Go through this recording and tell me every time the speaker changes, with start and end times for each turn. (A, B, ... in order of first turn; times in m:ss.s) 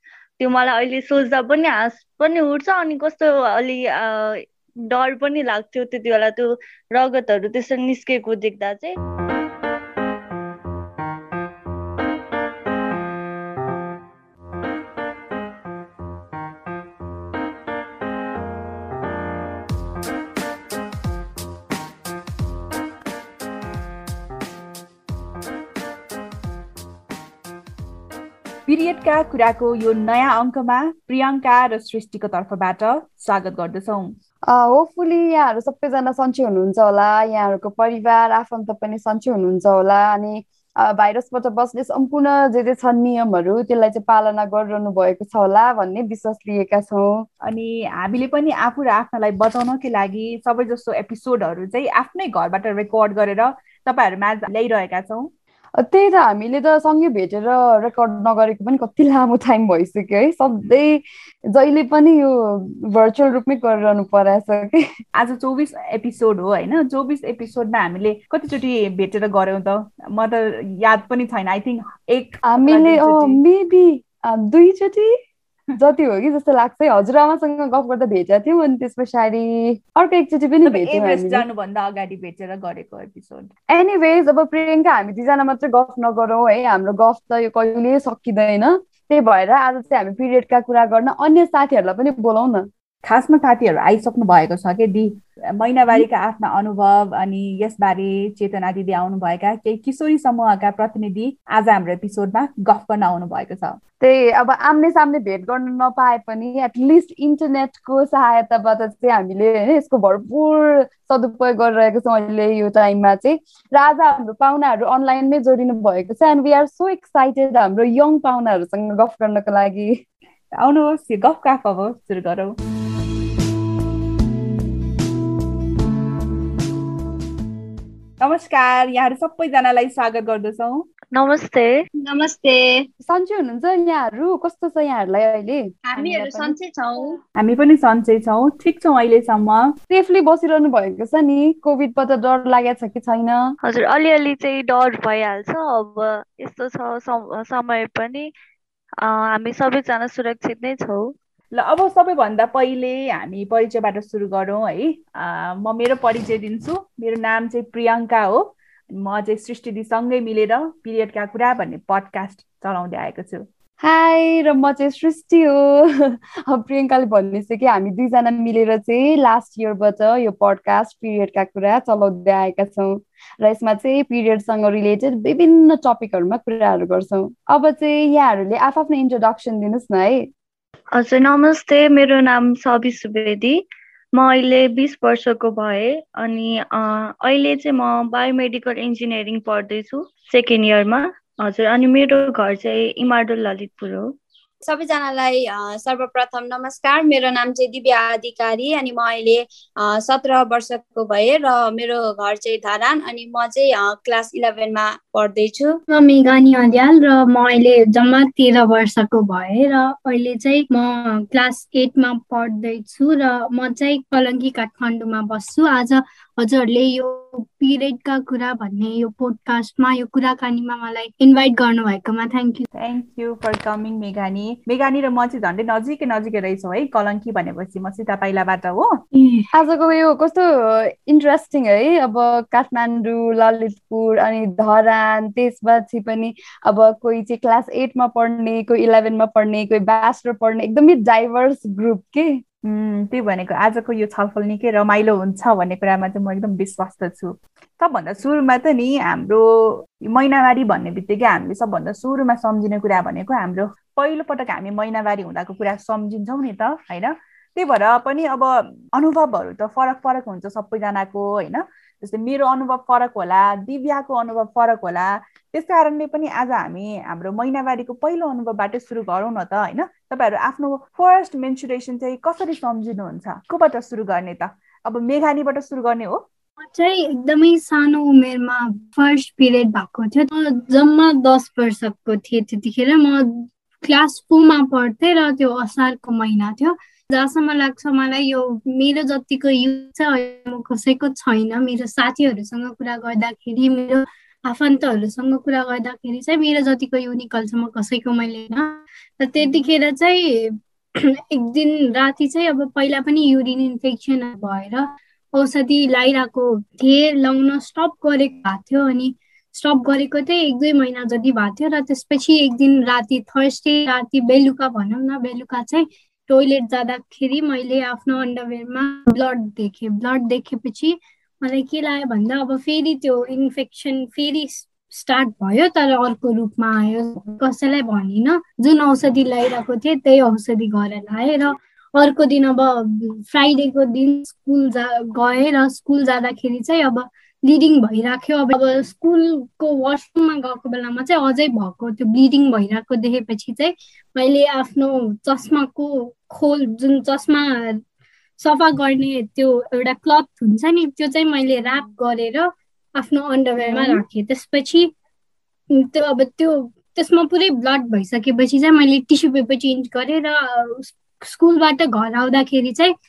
0:00.4-0:08.9 A
0:28.7-0:34.1 B
0:34.5-0:47.2 C
0:47.4-0:55.3 B
0:55.8-1:01.0 C
1:01.5-1:04.8 C
1:05.1-1:13.4 B
1:12.5-1:15.1 C
1:15.8-1:21.4 C
1:20.6-1:23.5 B
1:23.7-1:32.7 C
1:33.0-1:43.8 B
1:44.0-2:00.0 C
2:00.6-2:02.6 B
2:08.2-2:10.9 B
2:11.1-2:11.8 A
2:12.0-2:12.9 D
2:13.0-2:16.6 C
2:15.9-2:17.2 D
2:17.4-2:19.7 B
2:19.9-2:23.5 C
2:23.6-2:28.3 A
2:29.0-2:31.1 A
2:31.5-2:43.5 B
2:43.8-3:00.3 C
3:01.0-3:03.6 A
3:04.2-3:14.1 A
3:14.6-3:25.8 D
3:25.9-3:42.6 E
3:42.7-3:48.9 B
3:49.1-3:49.5 E
3:49.5-4:02.4 C
4:02.6-4:36.2 B
4:36.6-5:47.8 E
5:48.4-5:54.9 E
5:53.7-5:54.0 C
5:55.7-6:02.9 E